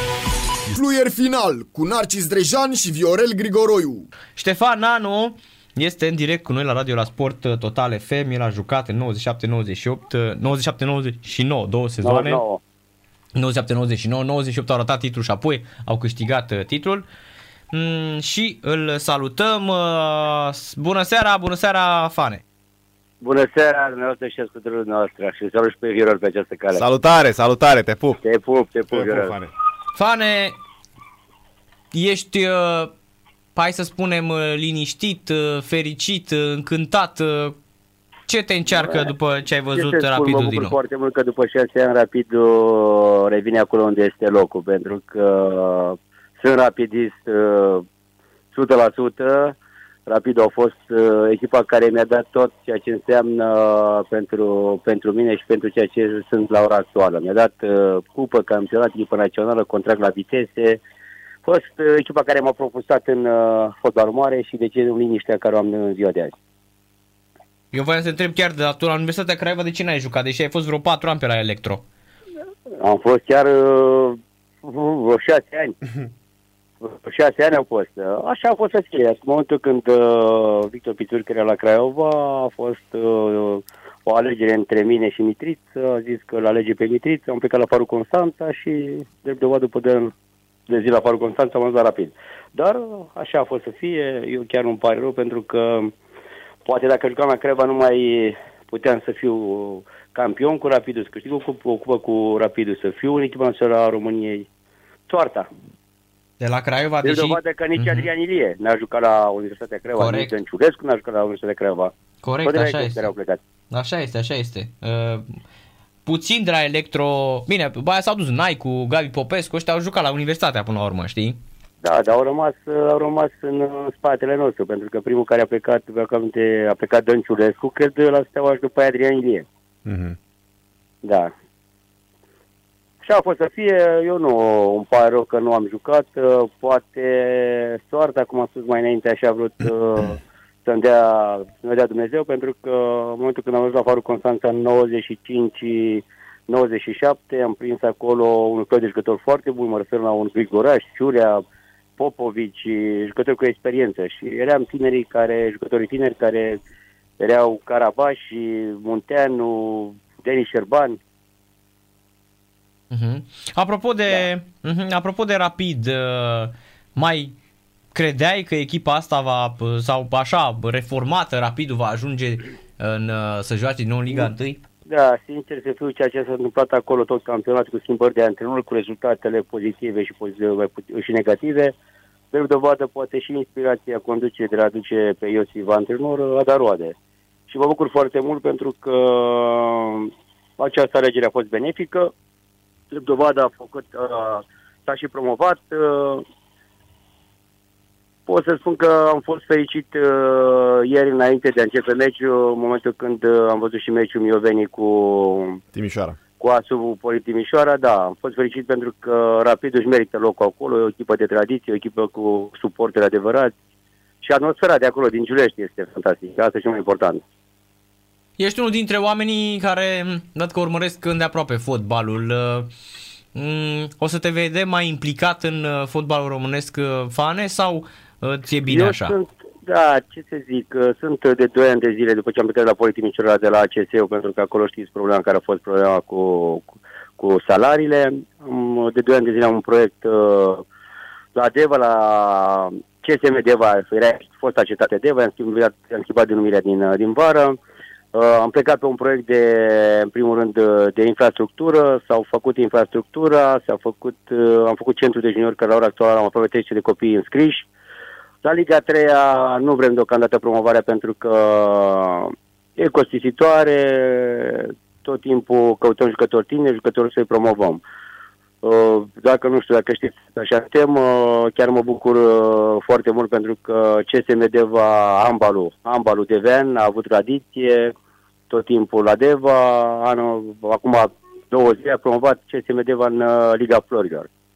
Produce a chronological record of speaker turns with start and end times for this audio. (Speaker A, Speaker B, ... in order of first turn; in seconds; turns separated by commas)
Speaker A: 0.7-4.1, Speaker B: 4.4-12.4, Speaker C: 12.0-12.6, Speaker B: 13.4-17.1, Speaker B: 17.7-22.4, Speaker C: 23.2-26.8, Speaker D: 26.7-28.2, Speaker C: 28.2-29.4, Speaker D: 28.9-29.5, Speaker B: 29.9-30.6, Speaker B: 31.9-32.9, Speaker B: 33.6-37.6, Speaker B: 38.3-40.8, Speaker C: 38.7-39.1, Speaker C: 39.7-47.9, Speaker C: 48.5-49.6, Speaker C: 50.1-60.8, Speaker C: 61.4-66.3, Speaker B: 67.7-71.8, Speaker C: 72.8-75.8, Speaker C: 76.8-90.1, Speaker C: 90.7-95.9, Speaker C: 96.7-104.5, Speaker C: 105.1-105.5, Speaker B: 106.4-108.1, Speaker C: 107.0-111.9, Speaker B: 110.0-110.3, Speaker B: 112.2-113.1, Speaker C: 112.4-113.4, Speaker B: 113.7-115.3, Speaker B: 116.1-121.4, Speaker C: 121.8-129.5, Speaker D: 129.9-130.2, Speaker C: 131.0-131.3, Speaker C: 133.0-151.4, Speaker C: 152.0-156.6, Speaker C: 157.2-161.0, Speaker B: 162.9-167.3, Speaker B: 167.9-174.6, Speaker C: 174.9-181.8, Speaker C: 182.3-186.9, Speaker C: 187.5-192.1, Speaker C: 192.9-196.2, Speaker C: 198.3-205.6, Speaker D: 205.7-206.2, Speaker C: 206.4-213.5, Speaker C: 214.2-217.2, Speaker B: 218.4-222.7, Speaker B: 223.3-229.2, Speaker C: 228.7-240.7, Speaker C: 241.3-247.6, Speaker C: 248.1-257.7, Speaker C: 258.4-267.8, Speaker C: 268.6-277.9, Speaker C: 278.5-284.3